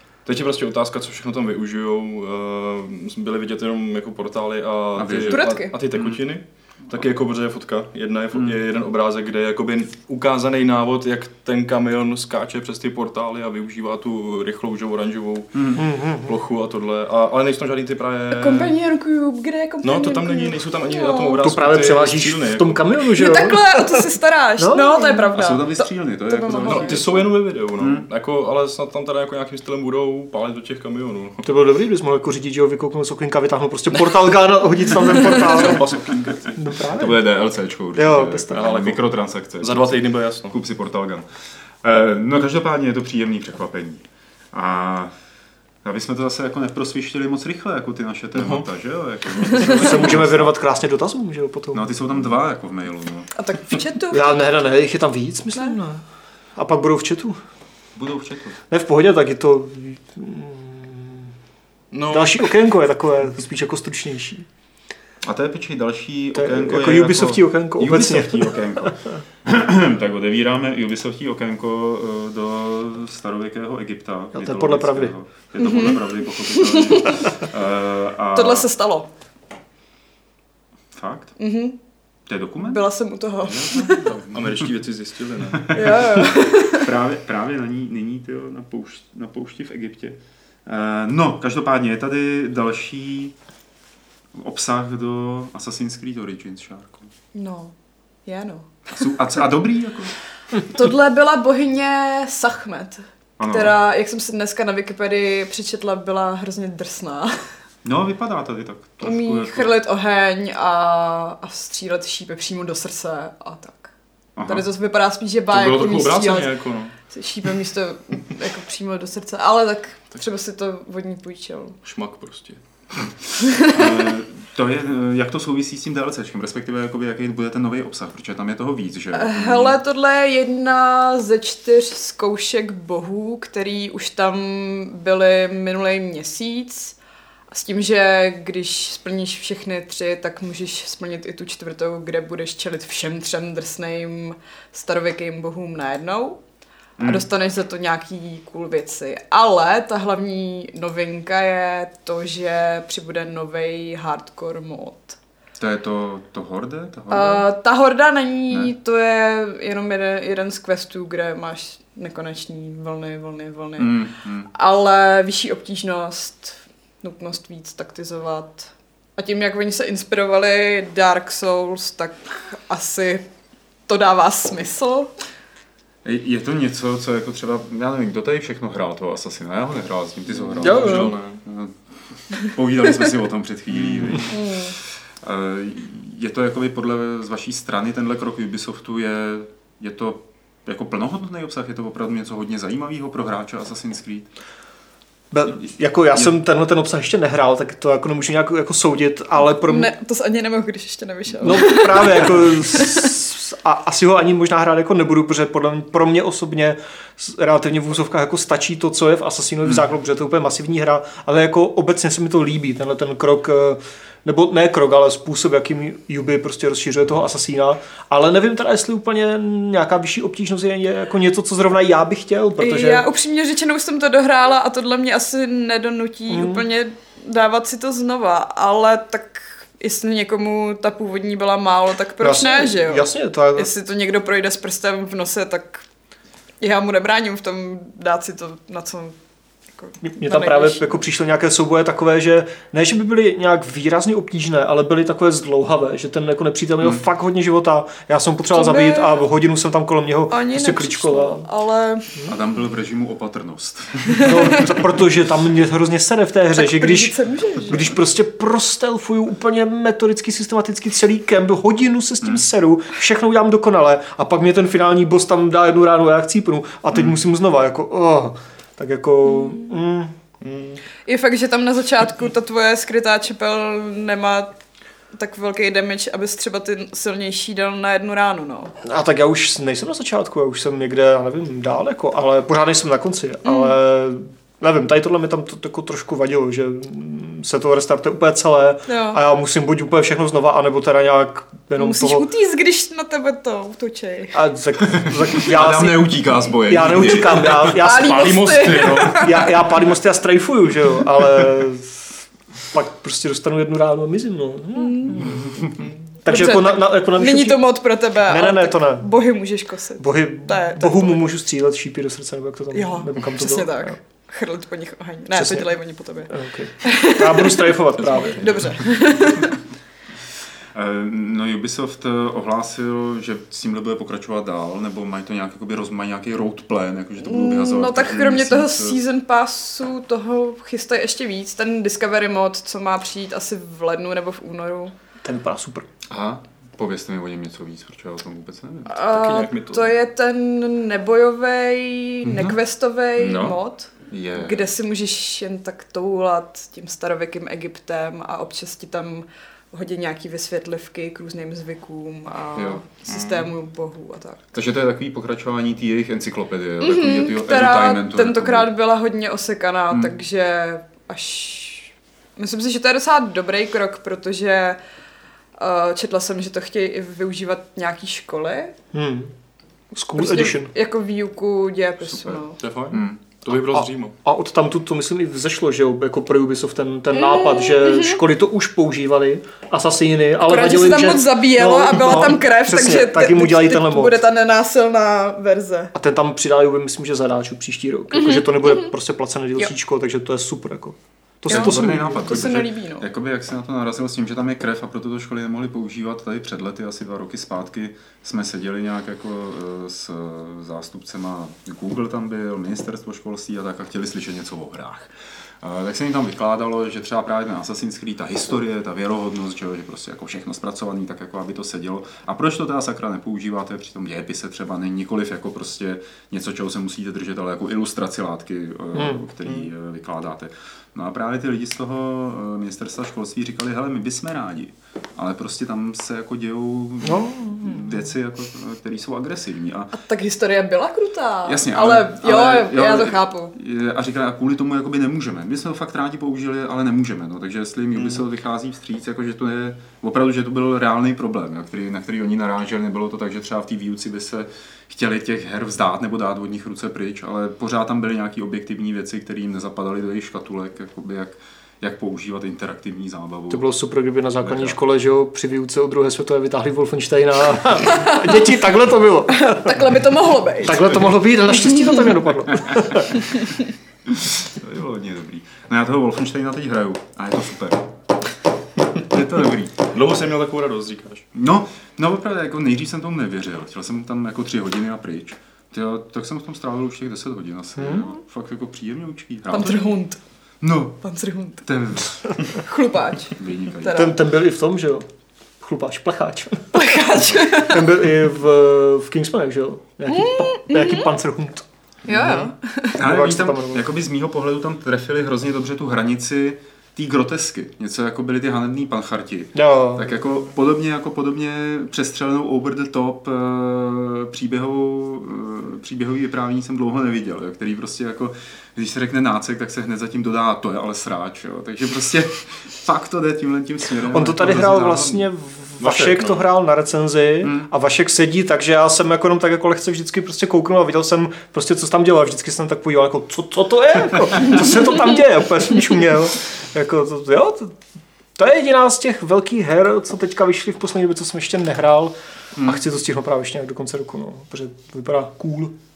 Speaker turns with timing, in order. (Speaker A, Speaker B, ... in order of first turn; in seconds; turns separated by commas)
Speaker A: 0.2-18.7, Speaker B: 5.0-6.2, Speaker C: 5.3-5.7, Speaker B: 15.5-15.8, Speaker D: 15.8-16.4, Speaker C: 18.3-21.5, Speaker A: 19.8-22.9, Speaker D: 21.4-25.3, Speaker C: 23.1-27.1, Speaker B: 25.3-28.1, Speaker A: 26.6-31.4, Speaker D: 31.4-35.9, Speaker A: 34.9-36.5, Speaker D: 36.5-37.2, Speaker B: 36.9-41.2, Speaker D: 38.0-38.7, Speaker A: 38.5-39.0, Speaker A: 39.6-40.5, Speaker B: 41.8-45.1, Speaker B: 45.8-50.5, Speaker A: 48.3-48.6, Speaker D: 49.6-51.9, Speaker B: 51.7-53.3, Speaker C: 53.3-54.4, Speaker D: 54.1-56.0, Speaker D: 56.5-57.4, Speaker B: 57.9-58.6, Speaker D: 58.7-61.3, Speaker A: 61.9-62.5, Speaker D: 62.1-64.5, Speaker B: 65.2-78.7, Speaker D: 66.3-68.9, Speaker D: 74.3-75.1, Speaker C: 75.6-77.3, Speaker C: 78.3-79.1, Speaker B: 80.9-81.3, Speaker C: 81.4-81.8, Speaker B: 82.3-82.8, Speaker C: 82.6-84.1, Speaker B: 83.4-84.7, Speaker A: 84.3-85.9, Speaker B: 85.5-86.0, Speaker C: 85.7-86.9, Speaker B: 86.7-93.3, Speaker B: 94.3-97.1, Speaker C: 97.3-97.7, Speaker C: 98.2-98.7, Speaker B: 98.9-100.1, Speaker C: 100.6-107.4, Speaker B: 103.4-103.8, Speaker B: 107.8-109.7, Speaker C: 109.0-113.9, Speaker B: 114.3-114.7, Speaker C: 114.5-116.5, Speaker A: 115.5-116.9, Speaker C: 117.1-121.8, Speaker A: 121.8-122.6, Speaker C: 123.4-124.1, Speaker B: 123.7-129.8, Speaker C: 129.1-137.0, Speaker C: 137.5-146.4, Speaker B: 147.0-147.2, Speaker C: 147.0-155.2, Speaker B: 155.6-157.4, Speaker C: 157.1-164.0, Speaker B: 163.8-164.5, Speaker C: 164.5-173.2, Speaker C: 173.9-175.1, Speaker B: 176.0-181.7, Speaker A: 180.4-181.4, Speaker D: 180.6-181.1, Speaker B: 182.3-194.3, Speaker A: 183.8-184.2, Speaker C: 184.3-184.7, Speaker D: 195.3-199.9, Speaker C: 199.6-203.1, Speaker D: 201.4-223.1, Speaker C: 222.6-235.8, Speaker D: 226.3-226.6, Speaker D: 232.2-233.7, Speaker C: 236.6-239.2, Speaker C: 239.8-241.0, Speaker D: 240.0-251.4, Speaker C: 248.5-249.2, Speaker C: 250.3-252.1, Speaker B: 252.2-254.7, Speaker C: 254.2-254.4, Speaker D: 254.2-270.1, Speaker C: 256.6-257.9, Speaker C: 269.2-269.7, Speaker A: 270.4-270.8, Speaker C: 271.1-274.5, Speaker C: 275.1-278.7, Speaker D: 278.8-292.3, Speaker C: 283.4-283.8, Speaker C: 288.9-289.2, Speaker C: 291.8-294.4, Speaker D: 294.3-302.1, Speaker B: 294.8-297.8, Speaker C: 297.8-299.4, Speaker A: 297.9-299.5, Speaker D: 302.7-305.5, Speaker C: 304.8-305.5, Speaker B: 305.4-305.8, Speaker D: 306.2-307.7, Speaker C: 306.3-311.3, Speaker D: 308.2-309.1, Speaker D: 310.0-313.9, Speaker C: 312.7-316.3, Speaker D: 315.3-318.6, Speaker C: 316.8-317.8, Speaker A: 317.9-318.9, Speaker C: 318.3-319.6, Speaker B: 320.7-329.0, Speaker C: 327.2-334.9, Speaker D: 335.2-335.9, Speaker B: 336.1-339.1, Speaker C: 338.9-354.4, Speaker A: 339.1-339.9, Speaker B: 342.2-342.6, Speaker B: 343.2-344.7, Speaker B: 352.5-352.8, Speaker A: 353.1-353.5, Speaker B: 354.5-358.7, Speaker C: 356.8-364.8, Speaker C: 365.6-368.8, Speaker D: 368.9-369.3, Speaker D: 369.9-370.7, Speaker C: 370.1-372.6, Speaker B: 372.0-373.2, Speaker A: 372.6-374.1, Speaker D: 373.5-384.2, Speaker C: 377.1-378.2, Speaker C: 380.4-385.9, Speaker D: 385.9-392.4, Speaker C: 388.1-388.9, Speaker C: 391.5-393.1, Speaker B: 391.5-429.9, Speaker D: 418.9-419.3, Speaker D: 427.0-428.1, Speaker C: 429.9-433.5, Speaker B: 431.4-453.6, Speaker D: 453.5-460.0, Speaker B: 454.4-454.8, Speaker C: 457.9-458.5, Speaker C: 459.3-462.3, Speaker D: 460.6-463.2, Speaker C: 463.1-463.6, Speaker B: 464.1-467.9, Speaker B: 468.9-469.8, Speaker A: 469.9-471.2, Speaker B: 471.3-479.9, Speaker D: 477.8-478.1, Speaker C: 479.5-480.2, Speaker B: 480.6-481.0, Speaker C: 481.0-481.6, Speaker B: 481.6-482.6, Speaker C: 482.5-484.2, Speaker B: 483.3-484.1, Speaker D: 483.9-485.1, Speaker D: 485.6-486.8, Speaker C: 486.7-487.9, Speaker D: 487.5-491.6, Speaker C: 490.1-491.1, Speaker C: 492.1-493.0, Speaker B: 492.1-515.1, Speaker D: 493.0-493.8, Speaker D: 499.5-500.2, Speaker D: 514.1-527.8, Speaker A: 514.7-515.1, Speaker A: 515.8-516.5, Speaker B: 517.4-517.7, Speaker D: 528.4-535.7, Speaker B: 532.6-532.8